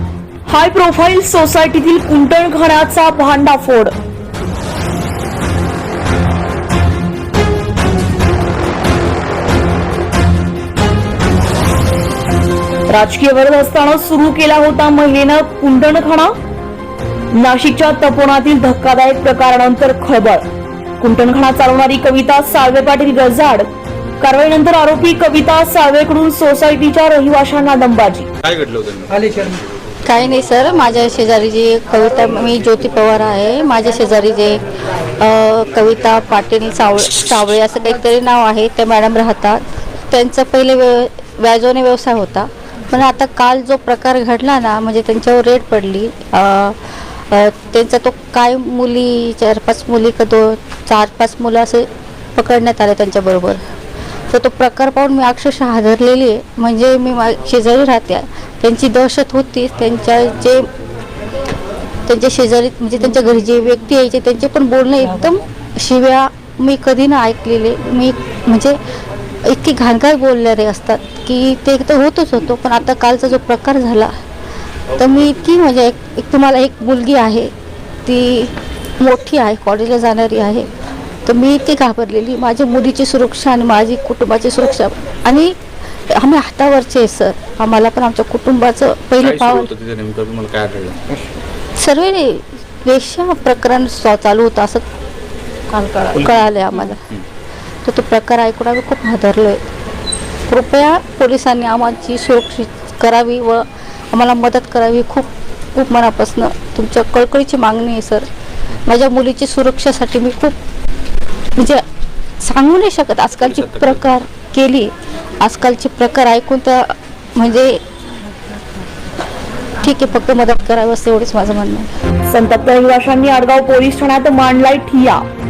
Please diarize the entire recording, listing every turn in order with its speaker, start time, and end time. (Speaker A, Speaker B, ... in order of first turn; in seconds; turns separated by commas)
Speaker A: 0.5-3.9, Speaker A: 12.9-16.4, Speaker A: 17.3-20.4, Speaker A: 21.0-23.7, Speaker A: 24.2-28.3, Speaker B: 28.4-29.1, Speaker C: 30.1-34.6, Speaker C: 35.2-53.6, Speaker C: 54.3-60.6, Speaker C: 62.1-68.8, Speaker C: 69.5-74.1, Speaker C: 75.0-77.5, Speaker C: 78.0-80.7, Speaker C: 81.3-85.5, Speaker C: 86.2-89.7, Speaker B: 89.2-91.0, Speaker C: 91.8-94.9, Speaker C: 95.8-97.0, Speaker C: 97.8-99.6, Speaker C: 100.5-108.3, Speaker C: 108.9-110.6, Speaker C: 111.6-111.8, Speaker C: 112.4-117.8, Speaker B: 113.6-114.0, Speaker C: 119.8-121.9, Speaker A: 122.3-125.2